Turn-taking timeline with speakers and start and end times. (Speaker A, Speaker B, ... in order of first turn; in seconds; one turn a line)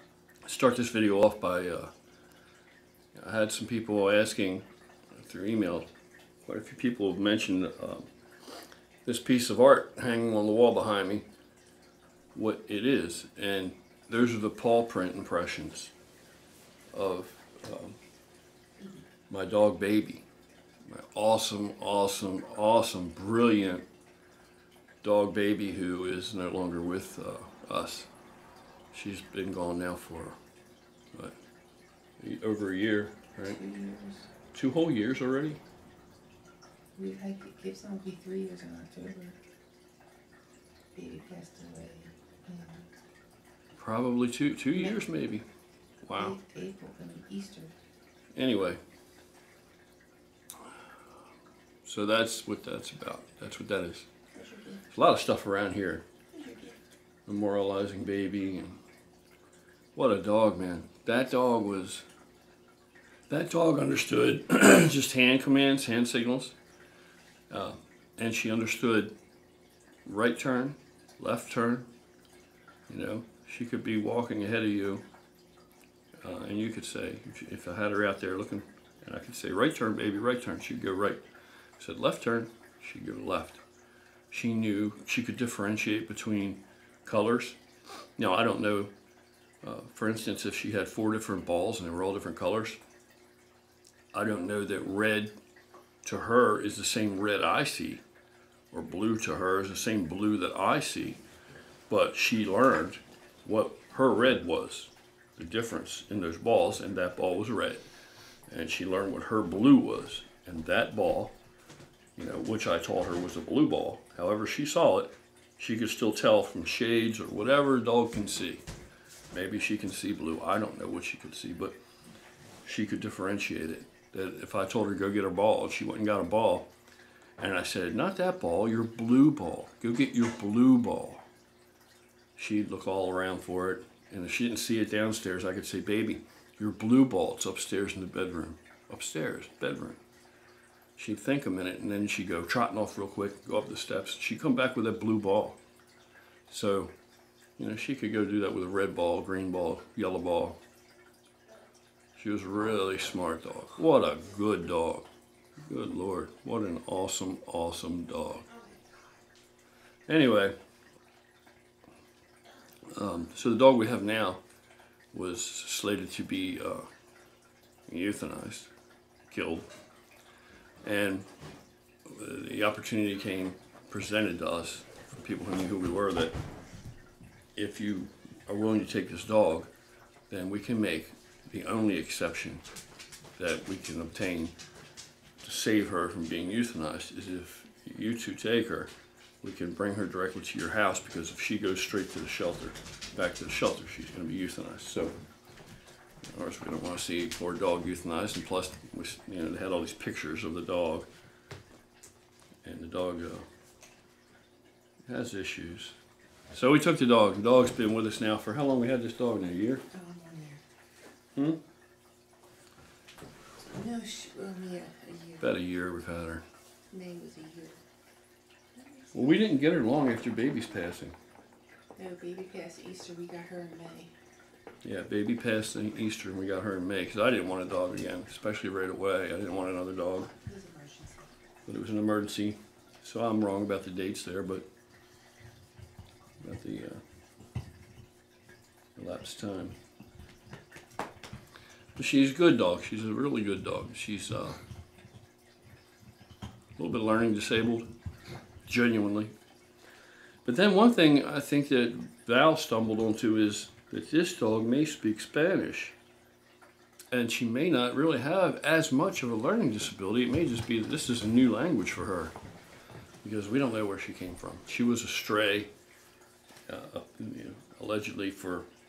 Speaker A: 0.5-1.9
Speaker A: 3.1-5.9
Speaker A: 6.5-8.1
Speaker A: 9.1-11.3
Speaker A: 12.3-15.9
Speaker A: 16.9-18.0
Speaker A: 19.3-20.3
Speaker A: 20.9-23.9
Speaker A: 25.0-28.1
Speaker A: 28.9-30.4
Speaker A: 32.2-33.6
Speaker B: 33.4-34.3
Speaker A: 34.5-35.6
Speaker B: 37.0-39.4
Speaker B: 40.9-42.9
Speaker A: 43.8-45.5
Speaker B: 44.8-45.0
Speaker A: 46.0-46.4
Speaker B: 46.1-47.7
Speaker A: 48.4-48.8
Speaker A: 51.9-54.1
Speaker B: 54.4-54.8
Speaker A: 54.9-56.0
Speaker B: 56.3-56.8
Speaker A: 57.3-58.8
Speaker A: 60.0-62.0
Speaker A: 63.3-66.6
Speaker A: 67.5-69.1
Speaker A: 70.0-71.9
Speaker A: 72.9-75.0
Speaker A: 76.2-81.2
Speaker A: 81.8-83.6
Speaker A: 84.3-87.6
Speaker A: 88.2-88.9
Speaker A: 89.6-92.8
Speaker A: 94.1-95.3
Speaker A: 96.0-98.0
Speaker A: 98.7-101.2
Speaker A: 101.9-107.8
Speaker A: 108.5-111.3
Speaker A: 112.2-118.6
Speaker A: 119.3-121.8
Speaker A: 122.7-126.7
Speaker A: 127.4-131.3
Speaker A: 132.4-140.0
Speaker A: 141.0-145.6
Speaker A: 146.5-146.9
Speaker A: 147.6-150.6
Speaker A: 152.2-155.1
Speaker A: 155.7-158.5
Speaker A: 160.1-160.6
Speaker A: 162.9-164.4
Speaker A: 165.1-166.9
Speaker A: 167.9-168.7
Speaker A: 169.3-169.7
Speaker A: 170.8-171.3
Speaker A: 172.1-176.4
Speaker A: 177.6-179.7
Speaker A: 180.3-182.6
Speaker A: 183.4-184.5
Speaker A: 185.4-188.9
Speaker A: 189.4-195.1
Speaker A: 196.3-201.1
Speaker A: 202.6-203.4
Speaker A: 205.1-206.0
Speaker A: 206.5-209.8
Speaker B: 209.9-210.6
Speaker A: 211.3-211.6
Speaker B: 213.6-215.4
Speaker A: 215.4-216.4
Speaker B: 216.9-217.8
Speaker B: 218.8-219.2
Speaker A: 219.1-221.2
Speaker B: 222.0-224.1
Speaker A: 224.8-230.3
Speaker B: 230.4-231.3
Speaker A: 231.7-234.7
Speaker A: 236.4-237.0
Speaker A: 239.0-239.8
Speaker A: 242.0-244.6
Speaker A: 246.8-247.9
Speaker A: 248.7-249.3
Speaker A: 250.4-256.0
Speaker A: 257.1-262.3
Speaker A: 263.2-265.7
Speaker A: 266.7-268.7